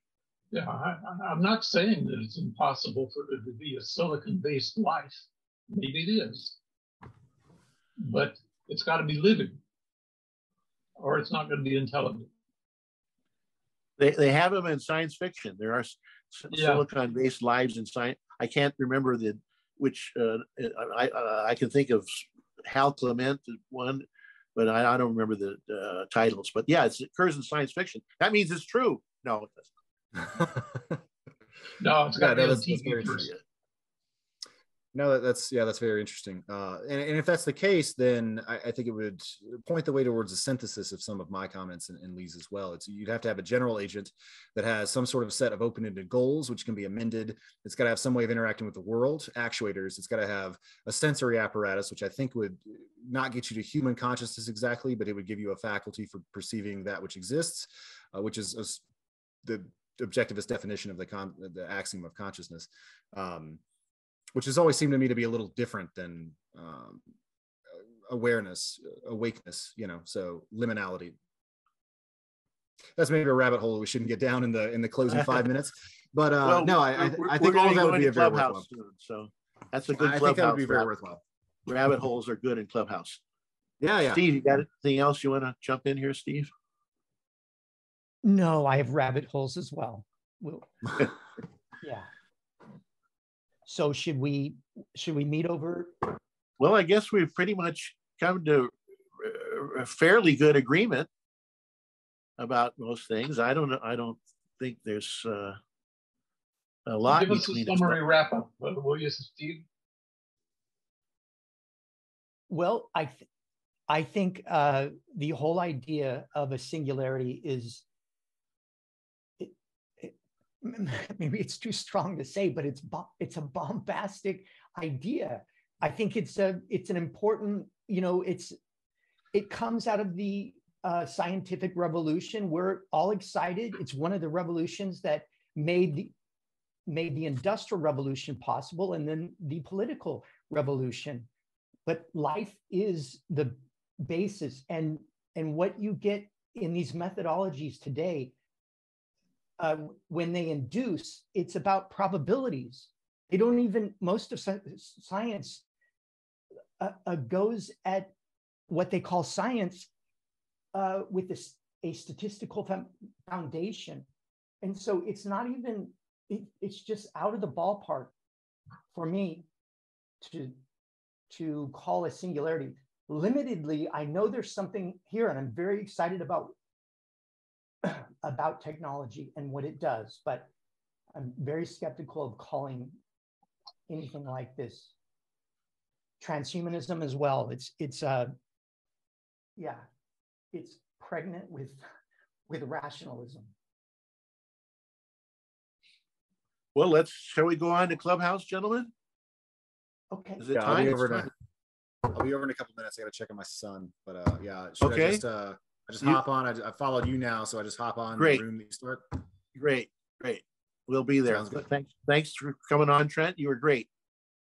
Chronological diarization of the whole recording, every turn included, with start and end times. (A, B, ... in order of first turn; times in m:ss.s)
0:00.5-0:06.6 A
0:08.0-0:09.6 A
0:11.0-0:12.3 A
0:14.0-0:29.7 B
0:16.5-0:16.8 A
0:30.3-0:30.8 C
0:31.8-0:33.3 A
0:32.2-0:33.3 C
0:34.9-0:58.8 C
0:59.4-1:03.6 C
1:04.4-1:07.0 C
1:08.1-1:11.2 C
1:13.0-1:18.7 C
1:16.4-1:20.9 B
1:20.0-1:21.2 C
1:21.7-1:23.2 B
1:23.8-1:24.2 C
1:24.1-1:26.5 B
1:28.2-1:31.1 D
1:31.8-1:32.1 D
1:33.7-1:36.2 D
1:36.6-1:41.1 B
1:42.4-1:45.6 B
1:46.9-1:48.0 B
1:47.1-1:49.7 A
1:52.5-1:53.2 D
1:53.9-1:57.8 D
1:59.4-2:08.6 D
2:09.3-2:16.1 D
2:16.9-2:21.3 D
2:21.9-2:28.3 D
2:29.6-2:35.6 D
2:36.8-2:38.1 D
2:38.7-2:39.9 D
2:40.7-2:44.1 D
2:44.6-2:48.1 D
2:48.9-2:49.4 D
2:50.2-2:50.6 D
2:51.3-2:56.5 D
2:57.8-3:00.5 D
3:01.1-3:02.9 D
3:03.9-3:04.9 D
3:06.2-3:08.3 D
3:09.6-3:09.8 D
3:10.5-3:11.8 D
3:12.5-3:13.5 D
3:16.8-3:18.9 B
3:20.1-3:20.4 D
3:20.4-3:21.3 B
3:20.5-3:21.3 C
3:22.1-3:29.0 C
3:24.8-3:25.2 B
3:28.2-3:28.4 B
3:29.6-3:33.9 B
3:31.3-3:31.6 C